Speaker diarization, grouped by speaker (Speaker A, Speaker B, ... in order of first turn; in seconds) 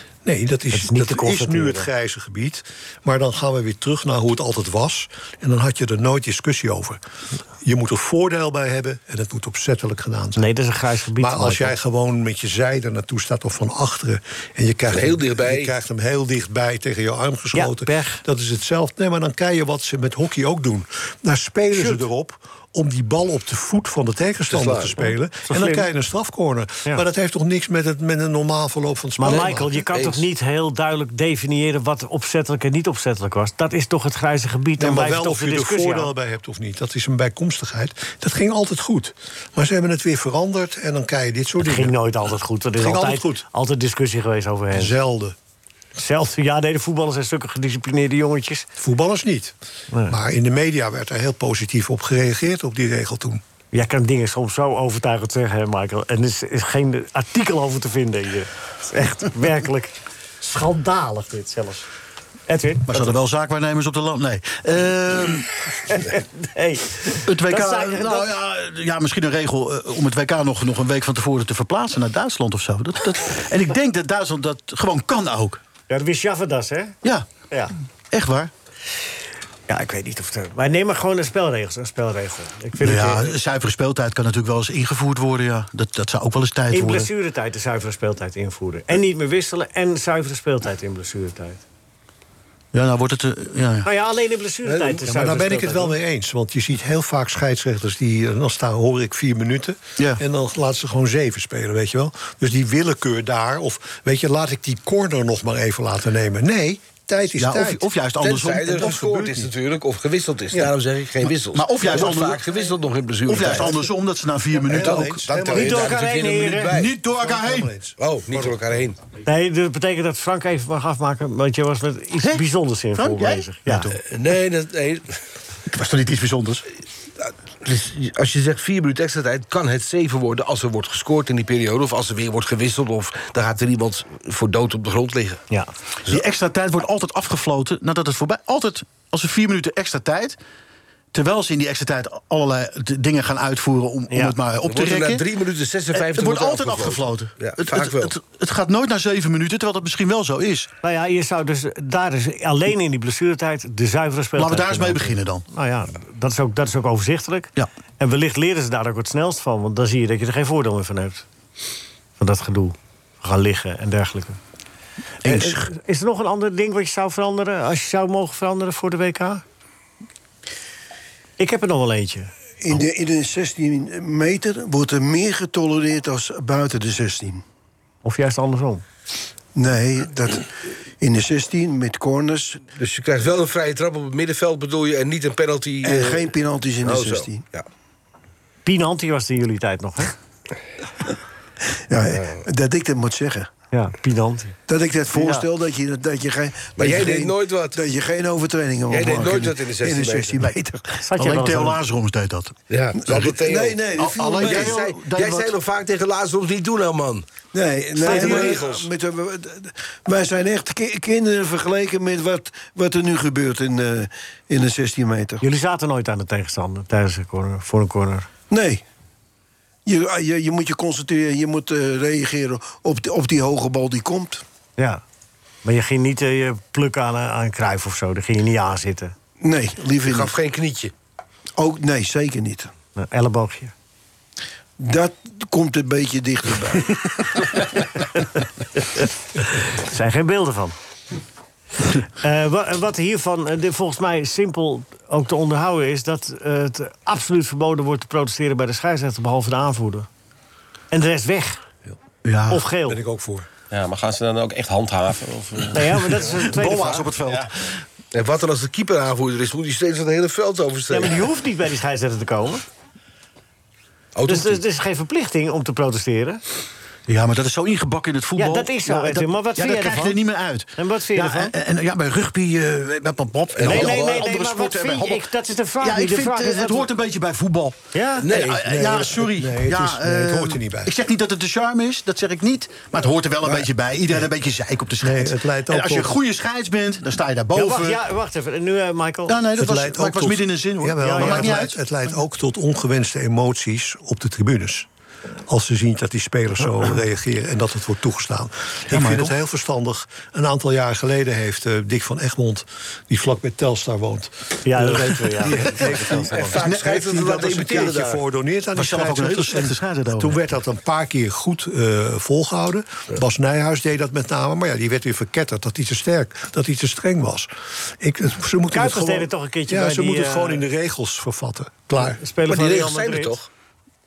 Speaker A: 0.2-7.0, 7.6-10.5, 11.2-29.7, 34.8-42.0, 42.8-43.4, 44.7-45.4, 48.8-49.5, 50.1-53.4, 95.0-107.8, 114.7-115.8, 117.2-118.5, 252.9-253.5, 278.6-280.9, 285.0-286.1, 289.6-294.9, 295.5-322.2
Speaker B: 0.7-1.9, 10.3-11.7, 17.5-18.2, 21.7-22.0, 25.5-25.9, 29.2-36.1, 41.6-45.0, 46.0-48.7, 53.7-61.9, 62.5-63.1, 65.9-68.3, 75.9-76.9, 79.7-83.3, 86.7-91.6, 93.8-95.9, 115.5-116.7, 119.2-123.9, 144.1-144.3, 150.8-161.2, 162.2-164.4, 165.2-169.4, 171.4-172.3, 178.0-178.8, 188.6-190.1, 193.7-194.6, 195.1-195.4, 201.0-201.8, 215.4-218.3, 225.6-229.1, 232.9-233.7, 238.8-240.8, 241.9-250.1, 250.9-251.6, 252.5-253.0, 255.7-257.1, 260.9-262.6, 264.3-266.4, 268.4-270.2, 270.8-271.5, 273.6-276.9, 277.9-278.3, 287.5-289.4, 291.0-291.6, 304.6-306.2, 318.7-320.6, 322.0-323.4
Speaker C: 14.9-15.7, 24.5-25.0, 29.3-30.2, 94.7-95.0, 108.2-113.8, 114.7-116.9, 118.0-119.0, 124.1-125.1, 127.6-135.4, 144.6-148.1, 182.8-187.7, 192.1-192.4, 196.8-197.8, 198.9-200.4, 202.7-207.2, 208.0-208.9, 230.0-230.9, 258.1-261.2, 264.1-264.6, 273.5-274.2, 278.2-278.8, 306.3-308.2, 322.4-323.5
Speaker D: 62.9-65.5, 67.1-75.6, 78.1-78.5, 82.8-87.1, 92.7-93.9, 107.4-109.5, 111.5-112.4, 113.2-115.2, 116.7-117.7, 123.0-124.0, 125.7-126.6, 136.1-140.4, 141.1-145.2, 145.9-150.7, 154.4-155.4, 165.2-165.7, 201.2-202.6, 203.9-205.5, 208.1-208.4, 252.2-252.6, 256.2-257.8, 267.1-288.0, 289.3-291.8, 298.9-299.3, 306.5-306.9, 308.7-310.4
Speaker E: 172.6-177.4, 179.5-182.6, 185.8-187.4, 191.9-193.5, 194.7-200.9, 203.1-204.8, 207.5-215.4, 218.5-218.8, 219.8-224.4, 229.4-230.3, 231.6-232.7, 234.8-237.6
Speaker F: 253.7-256.0